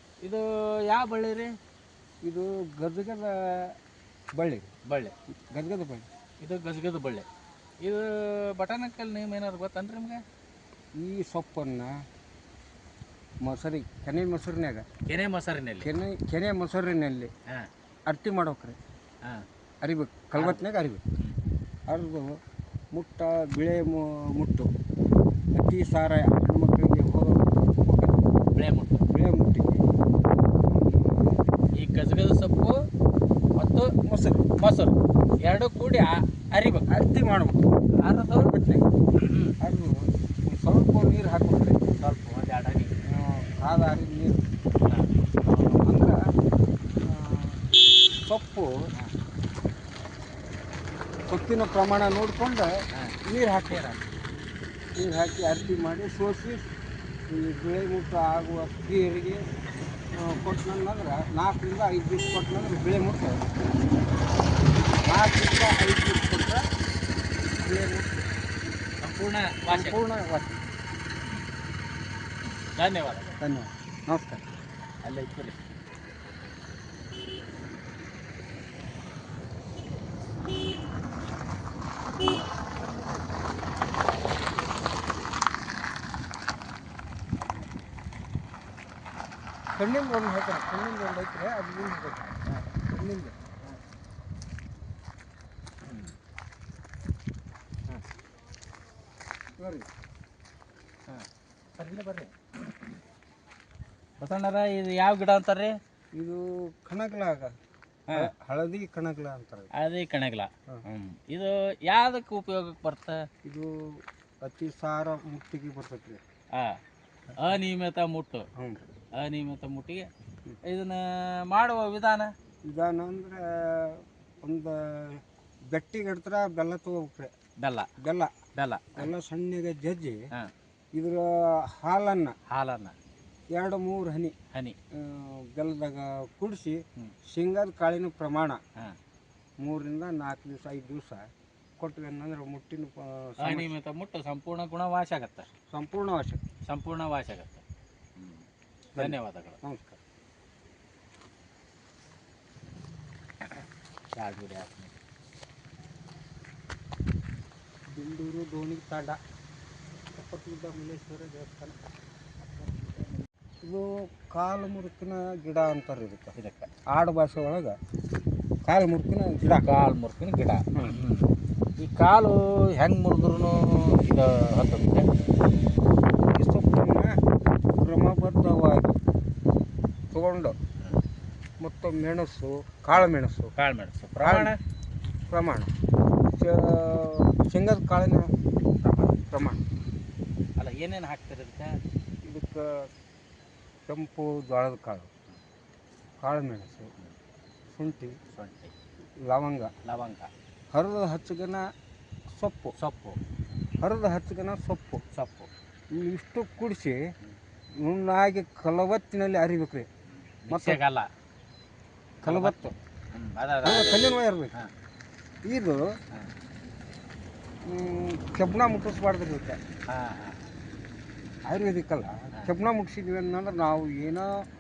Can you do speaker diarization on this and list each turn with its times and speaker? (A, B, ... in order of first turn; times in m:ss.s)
0:00.2-0:01.5 A
0:02.2-0:03.8 B
0:04.3-0:04.7 B
0:04.9-0:05.1 A
0:05.5-0:06.1 B
0:06.4-0:07.2 A
0:07.8-0:10.2 A
0:11.0-0:11.9 B
0:13.4-0:14.9 B
0:15.1-0:15.9 A
0:15.8-0:17.3 B
0:18.1-0:18.8 B
0:19.8-0:21.0 B
0:20.3-0:20.6 A
0:21.9-0:22.4 B
0:22.9-0:24.7 B
0:25.5-0:28.3 B
0:28.5-0:29.0 A
0:29.1-0:29.9 B
0:30.7-0:31.3 B
0:31.8-0:32.8 A
0:33.6-0:33.9 A
0:34.0-0:34.5 B
0:34.6-0:36.9 A
0:36.9-0:37.8 B
0:38.0-0:38.5 A
0:38.3-0:38.9 B
0:39.2-0:39.6 A
0:39.6-0:41.9 B
0:42.0-0:42.9 A
0:43.0-0:44.5 B
0:44.8-0:45.1 A
0:45.5-0:46.2 B
0:47.0-0:47.6 B
0:48.2-0:48.7 B
0:51.3-0:53.9 B
0:53.7-0:54.0 A
0:55.0-0:56.7 B
0:57.3-0:59.5 B
1:00.2-1:03.5 B
1:05.0-1:06.6 B
1:07.5-1:08.2 B
1:09.0-1:10.0 A
1:09.7-1:10.6 B
1:12.7-1:13.4 A
1:13.4-1:14.4 B
1:15.0-1:15.6 A
1:29.8-1:33.4 B
1:35.9-1:36.1 A
1:39.6-1:39.9 B
1:41.1-1:42.3 A
1:44.2-1:45.8 A
1:46.1-1:47.6 B
1:48.1-1:49.7 B
1:49.7-1:53.2 A
1:53.4-1:56.2 B
1:56.5-1:56.8 A
1:57.4-1:58.5 A
1:59.2-2:00.1 A
2:00.6-2:02.3 A
2:02.7-2:07.3 B
2:07.6-2:07.9 A
2:08.0-2:08.3 B
2:08.5-2:09.1 A
2:08.9-2:10.2 B
2:10.9-2:12.4 B
2:12.5-2:12.9 A
2:13.5-2:14.3 B
2:14.9-2:18.6 B
2:19.6-2:21.3 B
2:21.8-2:23.7 B
2:23.4-2:25.5 A
2:25.7-2:26.4 B
2:26.7-2:27.6 A
2:28.2-2:29.6 A
2:28.9-2:30.0 B
2:33.5-2:34.9 A
2:37.9-2:39.2 B
2:40.1-2:41.7 B
2:42.6-2:43.0 B
2:43.6-2:46.3 B
2:46.4-2:46.7 A
2:46.9-2:47.8 B
2:48.6-2:49.7 B
2:49.4-2:55.1 A
2:50.7-2:51.0 B
2:56.3-2:57.2 B
2:57.8-2:58.9 B
3:00.1-3:00.6 B
3:01.6-3:03.5 B
3:03.6-3:04.6 A
3:04.2-3:04.5 B
3:05.3-3:05.7 B
3:06.3-3:08.3 B
3:09.0-3:09.6 B
3:10.6-3:11.8 A
3:12.2-3:12.9 B
3:13.9-3:15.1 B
3:16.2-3:16.9 B
3:17.7-3:18.2 B
3:18.3-3:18.7 A
3:19.2-3:19.7 B
3:19.8-3:20.3 A
3:20.7-3:21.6 B
3:22.3-3:22.7 B
3:22.8-3:23.2 A
3:23.8-3:25.0 B
3:25.1-3:25.5 A
3:25.9-3:27.1 B
3:27.8-3:29.9 B
3:30.1-3:31.1 A
3:30.5-3:30.8 B
3:32.2-3:32.7 B
3:32.2-3:34.7 A
3:33.6-3:34.5 B
3:35.4-3:36.0 B
3:37.7-3:39.6 B
3:39.9-3:40.6 A
3:41.4-3:44.5 B